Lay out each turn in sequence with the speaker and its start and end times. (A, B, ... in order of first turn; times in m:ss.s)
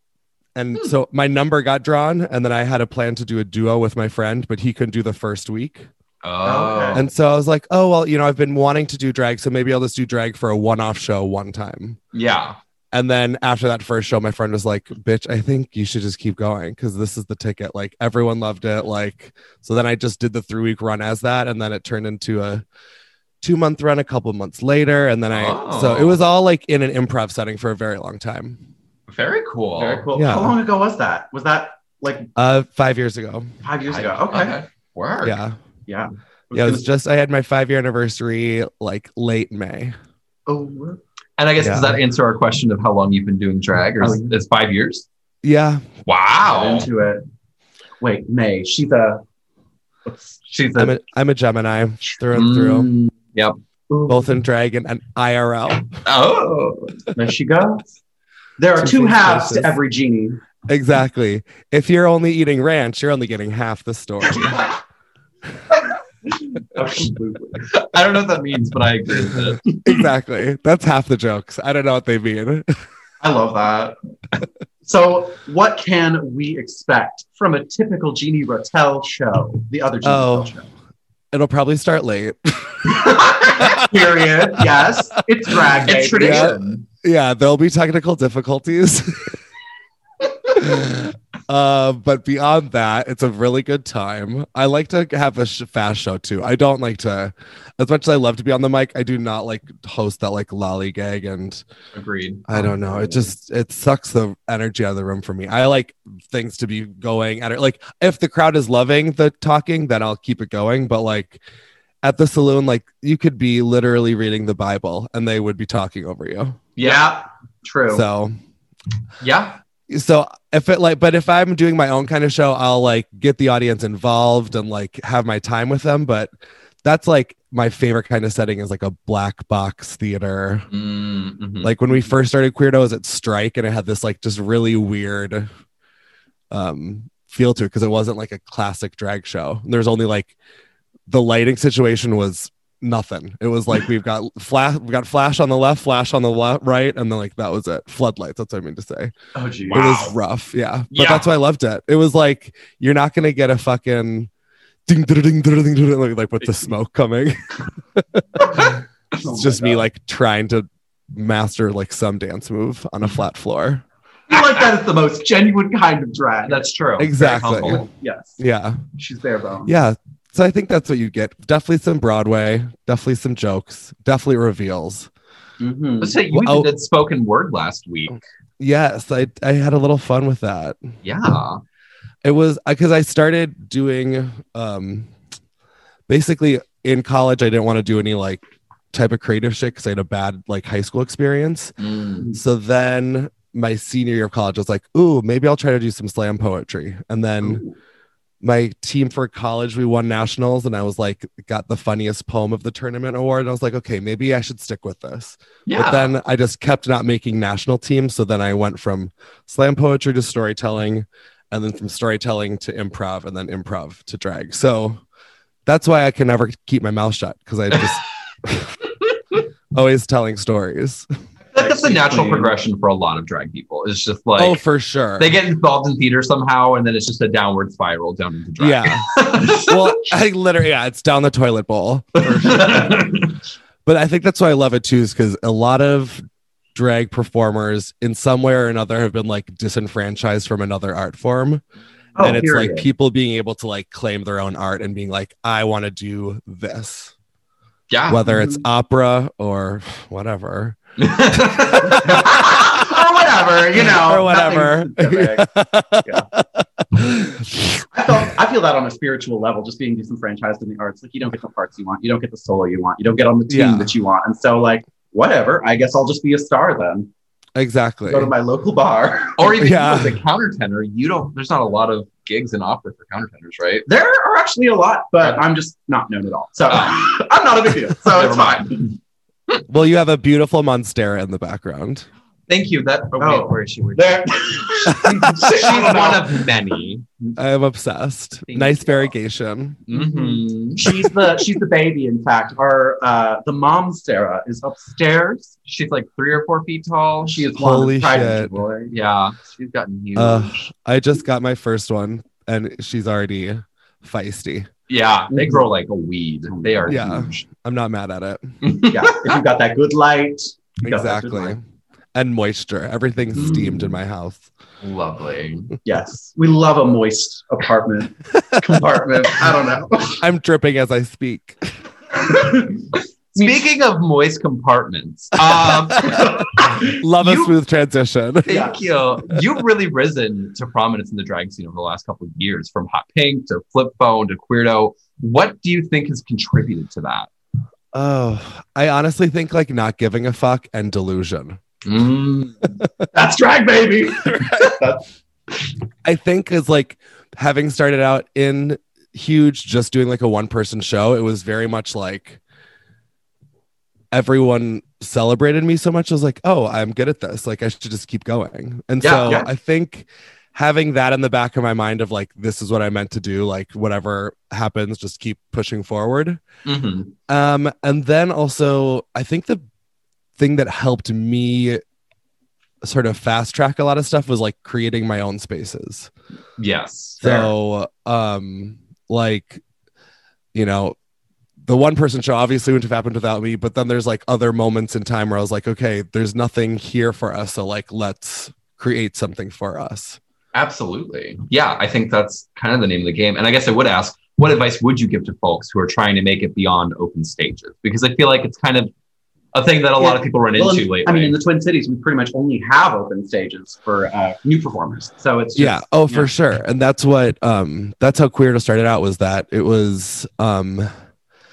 0:00.5-0:05.9 A
0:06.2-0:07.0 B
0:06.4-0:07.1 C
0:06.9-0:12.0 A
0:12.1-0:12.6 B
0:12.9-0:22.6 A
0:23.4-0:28.6 A
0:25.3-0:26.2 B
0:29.1-0:30.0 B
0:29.8-0:32.3 C
0:30.1-0:30.5 A
0:32.4-0:33.5 A
0:33.6-0:34.6 C
0:33.9-0:35.4 B
0:35.2-0:35.6 A
0:35.9-0:36.9 C
0:36.5-0:39.9 A
0:40.5-0:41.0 C
0:41.4-0:45.0 B
0:41.6-0:42.0 A
0:44.0-0:44.4 C
0:45.4-0:45.9 A
0:46.1-0:46.9 B
0:46.5-0:47.2 C
0:48.0-0:49.2 C
0:50.1-0:50.3 C
0:50.5-0:50.9 B
0:50.8-0:52.9 A
0:52.3-0:53.5 B
0:53.9-0:54.3 C
0:54.1-0:55.9 A
0:56.0-0:56.9 B
0:57.1-0:57.9 C
0:58.6-1:00.4 C
0:58.8-0:59.8 A
1:00.7-1:04.8 A
1:06.6-1:07.7 C
1:07.7-1:09.6 B
1:09.8-1:12.7 A
1:13.2-1:14.0 C
1:14.8-1:20.6 C
1:20.0-1:20.5 A
1:21.3-1:24.9 A
1:22.9-1:26.8 C
1:25.5-1:29.3 A
1:25.9-1:26.5 B
1:30.5-1:41.6 A
1:41.9-1:43.1 B
1:42.5-1:51.4 A
1:52.0-1:56.6 A
1:56.8-1:57.1 B
1:56.8-1:58.0 C
1:57.9-1:58.4 A
1:59.2-1:59.6 B
1:59.9-2:06.3 A
2:06.8-2:10.7 A
2:10.7-2:11.7 B
2:11.6-2:15.5 A
2:16.5-2:20.3 A
2:21.1-2:29.1 A
2:29.3-2:30.1 C
2:29.7-2:34.3 A
2:31.0-2:31.2 B
2:34.9-2:43.8 A
2:38.4-2:39.8 C
2:44.3-2:46.7 C
2:46.5-2:47.8 B
2:47.0-2:47.8 A
2:47.2-2:48.4 C
2:48.4-2:48.8 A
2:49.0-2:49.7 C
2:49.6-2:55.1 A
2:55.6-2:56.2 C
2:56.0-2:58.2 B
2:56.3-2:56.7 A
2:58.6-3:00.8 A
3:01.0-3:01.6 B
3:02.2-3:05.1 A
3:06.1-3:11.8 A
3:11.8-3:12.3 B
3:12.3-3:17.6 A
3:18.4-3:35.0 A
3:25.7-3:26.1 B
3:35.6-3:38.7 A
3:39.7-3:41.1 A
3:41.5-3:44.6 B
3:41.6-3:42.6 C
3:44.4-3:45.4 A
3:45.2-3:49.7 B
3:48.6-3:53.1 A
3:52.7-3:53.2 B
3:53.8-4:01.6 A
4:02.1-4:02.9 C
4:02.2-4:07.1 A
4:07.9-4:08.2 B
4:08.1-4:12.7 A
4:08.2-4:08.6 C
4:11.0-4:12.0 B
4:11.8-4:15.4 C
4:13.9-4:17.8 A
4:17.9-4:27.1 C
4:23.5-4:23.9 A
4:27.6-4:28.3 A
4:28.1-4:29.6 C
4:29.4-4:33.8 B
4:29.6-4:30.2 A
4:33.8-4:38.8 C
4:36.7-4:37.0 B
4:38.1-4:38.9 B
4:39.7-4:42.1 A
4:42.5-4:47.3 B
4:43.2-4:46.4 C
4:45.0-4:45.5 A
4:47.4-4:49.8 A
4:48.5-4:49.1 B
4:49.9-4:50.8 B
4:49.9-4:55.5 C
4:50.9-4:51.3 A
4:55.7-4:57.5 B
4:57.2-4:58.9 C
4:57.5-4:58.6 A
4:58.9-5:00.7 B
5:00.1-5:04.7 A
5:04.9-5:07.4 B
5:05.3-5:05.6 C
5:06.5-5:07.2 C
5:06.9-5:08.5 A
5:08.6-5:09.0 B
5:08.9-5:11.5 C
5:10.8-5:11.6 A
5:12.1-5:14.5 A
5:13.4-5:13.7 C
5:14.8-5:15.7 B
5:15.8-5:20.2 C
5:20.2-5:21.6 A
5:22.2-5:22.8 C
5:23.3-5:26.3 B
5:26.0-5:26.9 C
5:26.8-5:28.7 A
5:27.2-5:27.5 B
5:28.4-5:37.3 B
5:28.5-5:28.8 C
5:37.9-5:41.6 A
5:41.8-5:42.7 B
5:43.1-5:45.0 C
5:46.0-5:52.4 A
5:54.1-6:06.4 A
5:59.0-5:59.4 B
6:06.6-6:07.1 B
6:07.3-6:09.6 A
6:10.4-6:11.8 A
6:12.8-6:16.1 A
6:16.6-6:17.5 B
6:17.2-6:19.6 A
6:20.5-6:21.0 A
6:21.6-6:30.2 A
6:30.5-6:38.9 B
6:39.5-6:41.3 B
6:40.0-6:46.3 C
6:45.6-6:50.9 A